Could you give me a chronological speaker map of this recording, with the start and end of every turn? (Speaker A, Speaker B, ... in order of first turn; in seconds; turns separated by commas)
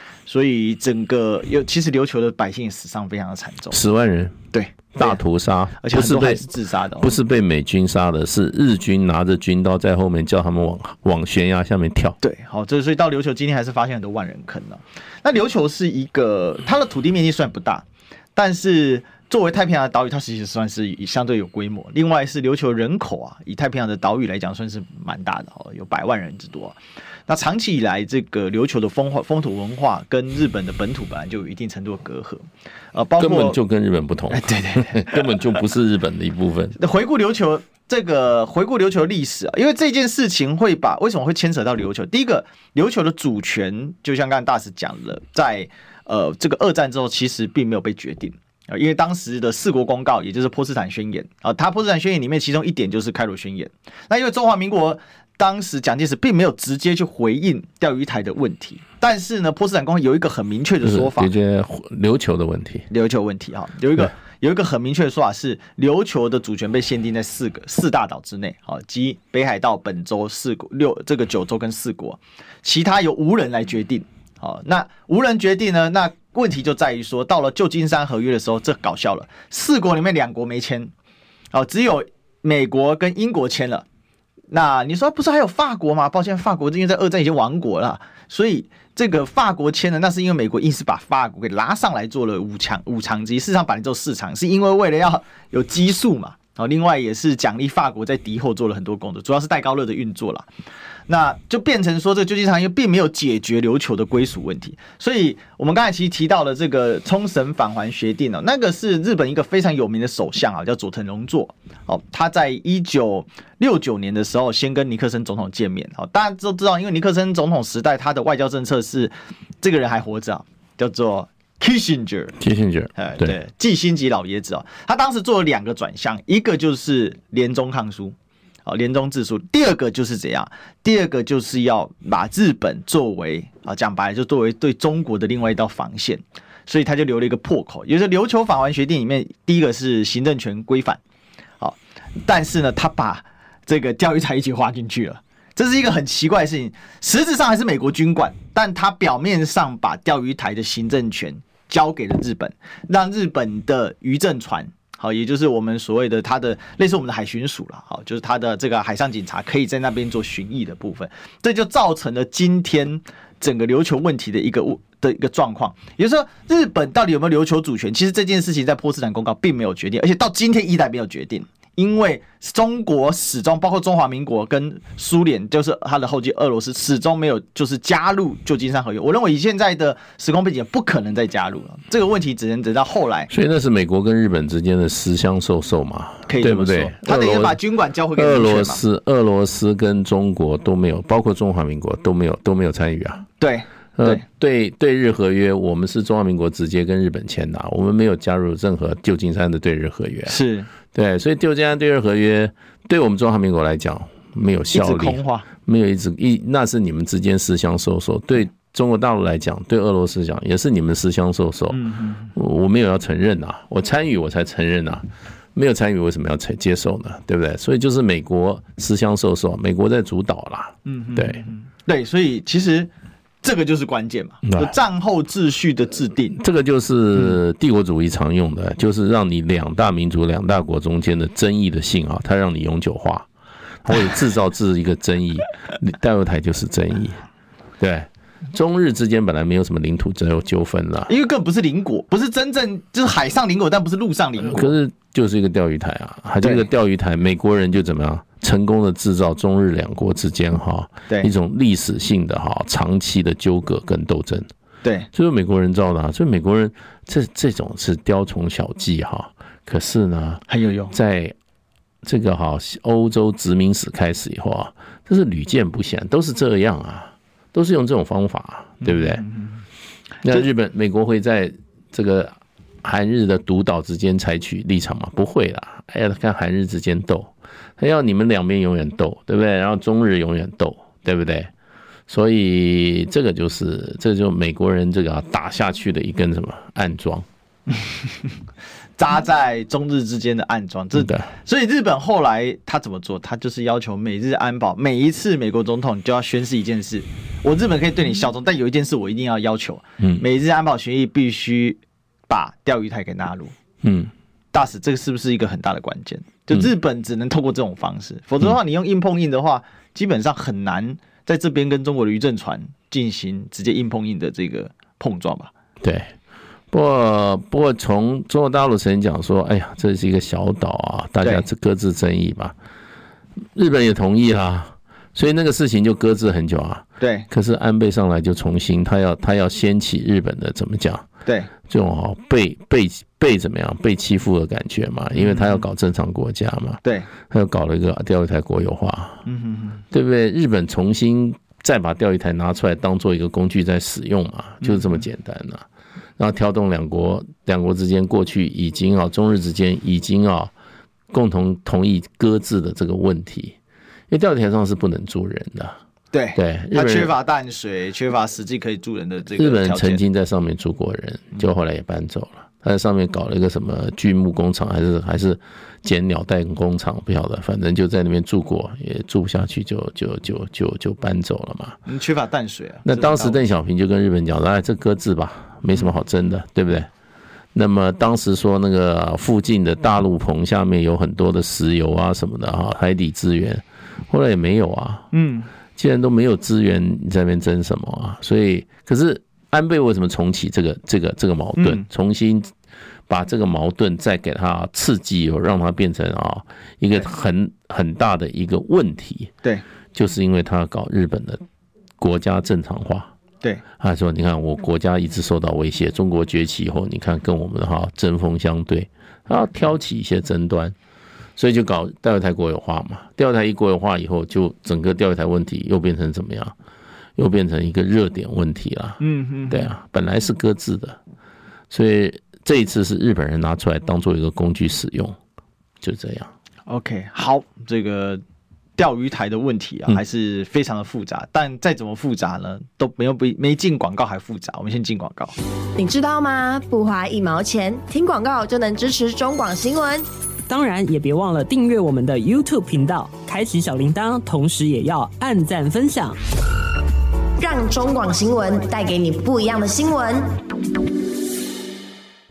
Speaker A: 0.3-3.8, Speaker B: 3.7-4.4, Speaker A: 4.5-5.2, Speaker B: 4.9-6.4, Speaker A: 5.8-7.1, Speaker B: 7.0-12.2, Speaker A: 12.2-17.9, Speaker A: 18.4-26.8, Speaker A: 27.3-33.6, Speaker B: 33.2-36.8, Speaker A: 34.3-35.4, Speaker A: 36.8-61.3, Speaker B: 60.8-62.9, Speaker A: 62.9-80.9, Speaker A: 81.5-83.9, Speaker A: 84.5-100.5, Speaker A: 101.1-122.4, Speaker B: 122.4-123.4, Speaker A: 123.0-128.2, Speaker A: 128.7-141.0, Speaker A: 141.6-183.3, Speaker B: 183.3-187.6, Speaker A: 186.3-188.8, Speaker B: 188.2-193.3, Speaker A: 193.4-194.2, Speaker B: 194.0-211.8, Speaker A: 200.3-200.7, Speaker A: 204.7-205.5, Speaker A: 211.7-212.3, Speaker B: 212.3-221.4, Speaker A: 220.8-222.9, Speaker A: 223.4-226.4, Speaker B: 224.4-224.7, Speaker B: 226.3-233.3, Speaker B: 233.8-237.2, Speaker B: 237.8-241.1, Speaker A: 241.1-244.8, Speaker B: 244.4-254.5, Speaker B: 255.1-261.4, Speaker A: 260.5-260.9, Speaker B: 262.0-269.2, Speaker A: 268.8-269.6, Speaker B: 270.2-281.5, Speaker B: 282.1-287.3, Speaker A: 289.0-303.5, Speaker B: 291.0-291.3, Speaker B: 303.8-304.1, Speaker A: 304.5-315.5, Speaker B: 315.8-316.1, Speaker B: 316.7-322.6, Speaker B: 323.6-331.1, Speaker A: 327.0-327.3, Speaker B: 331.6-339.2, Speaker A: 335.2-335.6, Speaker A: 336.8-337.1, Speaker A: 339.3-339.8, Speaker B: 339.9-345.7, Speaker A: 344.6-344.9, Speaker B: 346.2-350.5, Speaker B: 351.1-353.6, Speaker B: 354.1-355.8, Speaker A: 356.1-360.0, Speaker B: 356.4-357.1, Speaker B: 359.4-371.8, Speaker A: 371.9-373.4, Speaker B: 372.9-376.9, Speaker B: 377.5-385.1, Speaker A: 385.1-385.5, Speaker B: 385.8-392.5, Speaker A: 391.6-391.9, Speaker B: 393.1-399.3, Speaker B: 399.9-401.4, Speaker B: 402.0-403.1, Speaker B: 403.8-410.8, Speaker B: 411.4-416.6, Speaker B: 417.2-421.0, Speaker A: 419.0-419.7, Speaker B: 421.7-425.2, Speaker B: 425.8-426.3, Speaker A: 426.7-428.2, Speaker A: 428.8-435.3, Speaker C: 435.8-440.1, Speaker D: 440.5-446.2, Speaker C: 447.4-450.4